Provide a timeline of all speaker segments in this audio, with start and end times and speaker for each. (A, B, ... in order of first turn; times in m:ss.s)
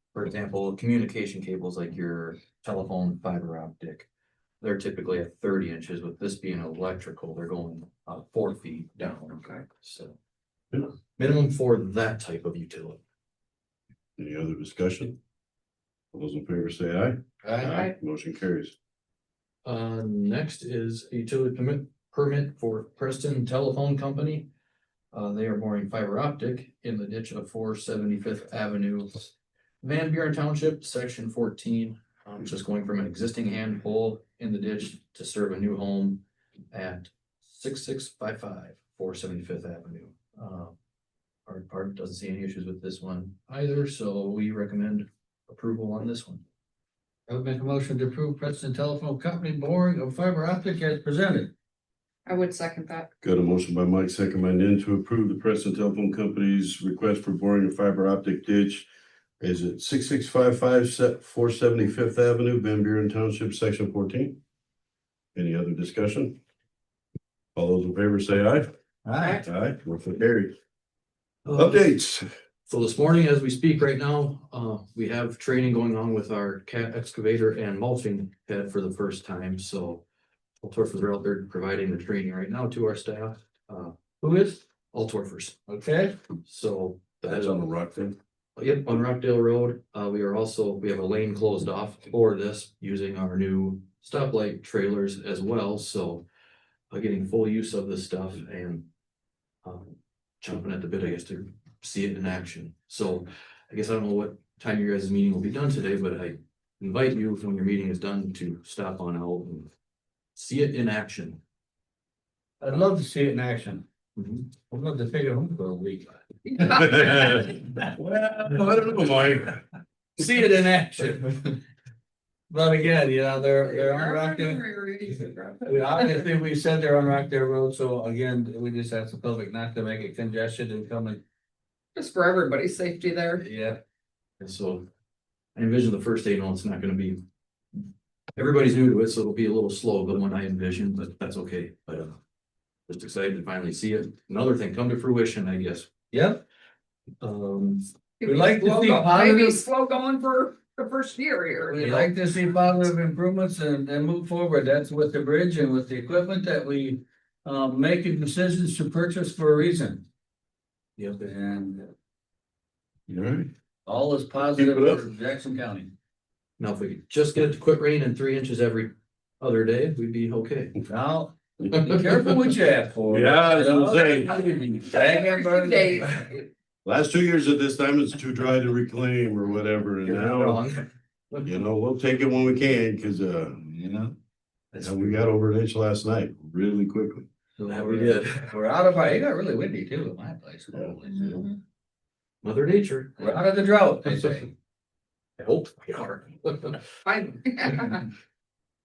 0:00.1-0:04.1 A
0:04.6-0:10.2 A
0:11.0-0:13.0 A
0:14.2-0:15.2 B
0:16.1-0:18.8 B
0:17.4-0:17.8 C
0:17.6-0:17.9 D
0:19.6-0:24.5 A
0:25.1-0:40.8 A
0:41.5-0:46.4 A
0:47.3-0:51.5 C
0:52.3-0:53.1 D
0:53.2-0:58.9 B
0:59.4-1:04.4 B
1:05.4-1:06.4 B
1:07.6-1:08.7 B
1:09.1-1:09.4 C
1:09.4-1:10.5 B
1:11.4-1:11.9 A
1:11.5-1:12.3 B
1:12.7-1:20.0 A
1:20.6-1:25.6 A
1:25.7-1:26.1 C
1:26.4-1:27.7 A
1:27.2-1:28.2 B
1:28.6-1:36.2 A
1:36.9-1:38.9 A
1:39.6-1:49.7 A
1:50.4-1:51.4 A
1:52.6-1:53.8 C
1:54.2-1:54.5 A
1:54.7-1:56.7 C
1:56.6-1:59.6 B
2:00.2-2:01.3 C
2:02.5-2:04.6 C
2:03.5-2:06.2 D
2:05.6-2:11.2 C
2:12.0-2:13.4 D
2:13.4-2:13.8 C
2:14.4-2:14.9 A
2:15.6-2:17.2 A
2:18.4-2:22.2 A
2:22.9-2:25.9 A
2:26.1-2:26.4 C
2:27.2-2:27.9 A
2:28.2-2:31.9 D
2:28.2-2:29.6 C
2:31.7-2:40.0 C
2:41.2-2:41.9 C
2:43.1-2:43.5 B
2:43.9-2:45.9 C
2:44.5-2:45.0 B
2:46.6-2:50.8 A
2:50.9-2:56.2 C
2:51.7-2:52.2 A
2:53.1-2:54.4 B
2:54.8-2:56.5 D
2:56.8-3:00.6 B
3:00.1-3:01.5 A
3:01.4-3:03.6 B
3:03.6-3:04.1 C
3:04.7-3:05.1 C
3:04.8-3:07.3 B
3:07.6-3:11.4 C
3:07.6-3:08.5 A
3:12.4-3:13.4 A
3:13.2-3:14.5 C
3:14.1-3:14.4 A
3:15.4-3:16.8 A
3:17.1-3:18.0 D